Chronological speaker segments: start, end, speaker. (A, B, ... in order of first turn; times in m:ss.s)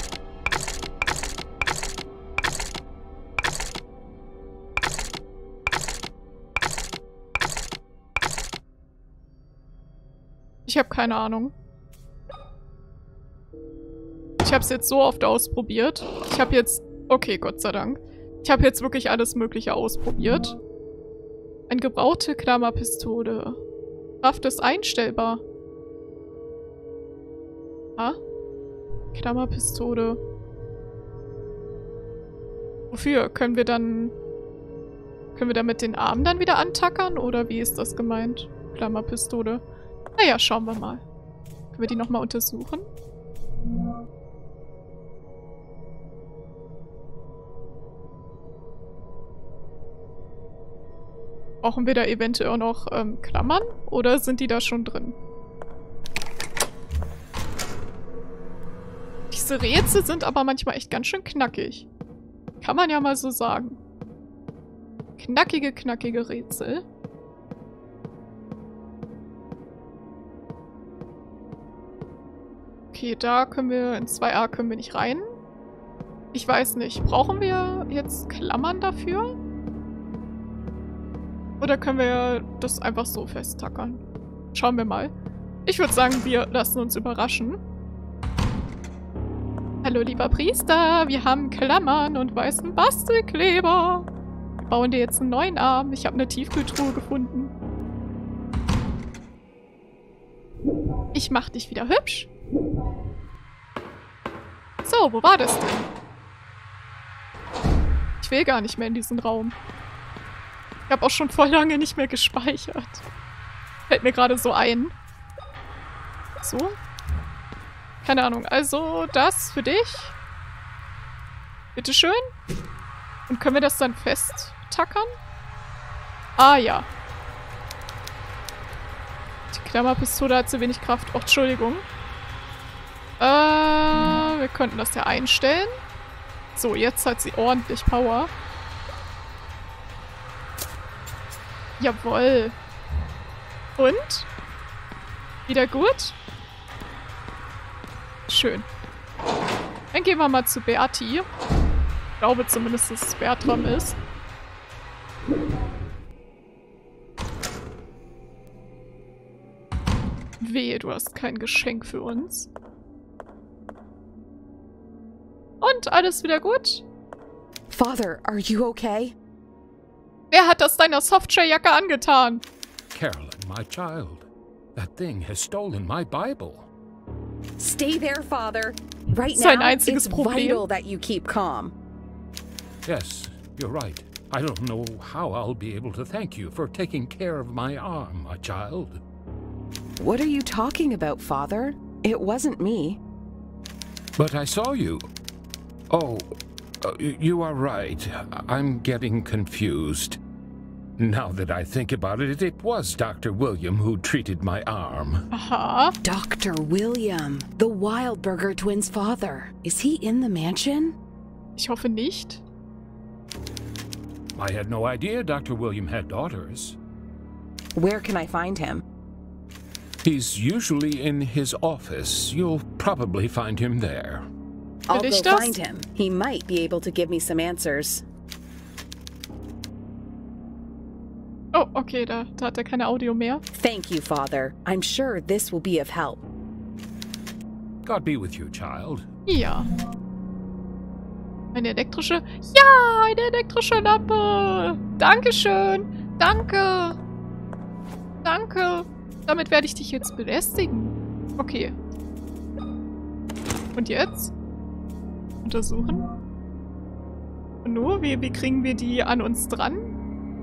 0:10.6-0:11.5 A
0:14.4-0:20.5 A
0:21.7-0:23.6 A
0:24.2-0:25.4 A
0:29.1-0:30.2 A
0:32.9-0:34.1 A
0:35.3-0:39.6 A
0:40.2-0:41.0 A
0:41.7-0:42.8 A
0:51.6-0:55.2 A
0:59.3-1:01.9 A
1:02.6-1:03.8 A
1:05.2-1:06.8 A
1:12.9-1:15.2 A
1:16.3-1:19.3 A
1:21.6-1:24.0 A
1:24.5-1:25.1 A
1:25.6-1:27.6 A
1:29.8-1:34.1 A
1:34.6-1:37.5 A
1:41.1-1:42.3 A
1:44.8-1:45.9 A
1:48.2-1:49.6 A
1:50.9-1:53.0 A
1:53.9-1:54.9 A
1:56.4-1:56.8 A
1:58.0-2:00.2 A
2:01.7-2:02.2 A
2:03.3-2:05.1 A
2:06.4-2:06.9 A
2:09.5-2:11.8 A
2:13.2-2:15.7 A
2:16.5-2:18.3 A
2:21.8-2:22.6 A
2:23.8-2:24.3 A
2:25.5-2:26.2 A
2:28.3-2:28.6 A
2:29.9-2:31.2 A
2:32.2-2:34.0 A
2:40.4-2:42.5 A
2:45.6-2:46.8 A
2:47.7-2:49.1 B
2:50.3-2:52.4 A
2:52.9-2:56.7 C
2:57.6-3:01.7 B
2:59.3-3:00.6 A
3:02.8-3:09.0 C
3:10.0-3:13.0 B
3:14.2-3:15.0 C
3:15.9-3:16.3 C
3:16.8-3:20.2 C
3:21.0-3:25.2 C
3:25.3-3:25.9 A
3:26.0-3:30.9 B
3:31.6-3:32.4 A
3:34.3-3:36.8 C
3:37.7-3:38.8 B
3:40.0-3:44.2 C
3:44.9-3:48.0 B
3:44.9-3:45.5 A
3:51.5-3:53.4 A
3:53.5-3:56.2 B
3:57.8-3:59.0 C
3:59.3-3:59.7 A
4:01.5-4:07.0 A
4:08.2-4:11.7 A
4:13.7-4:14.3 A
4:15.4-4:16.1 A
4:17.6-4:19.8 A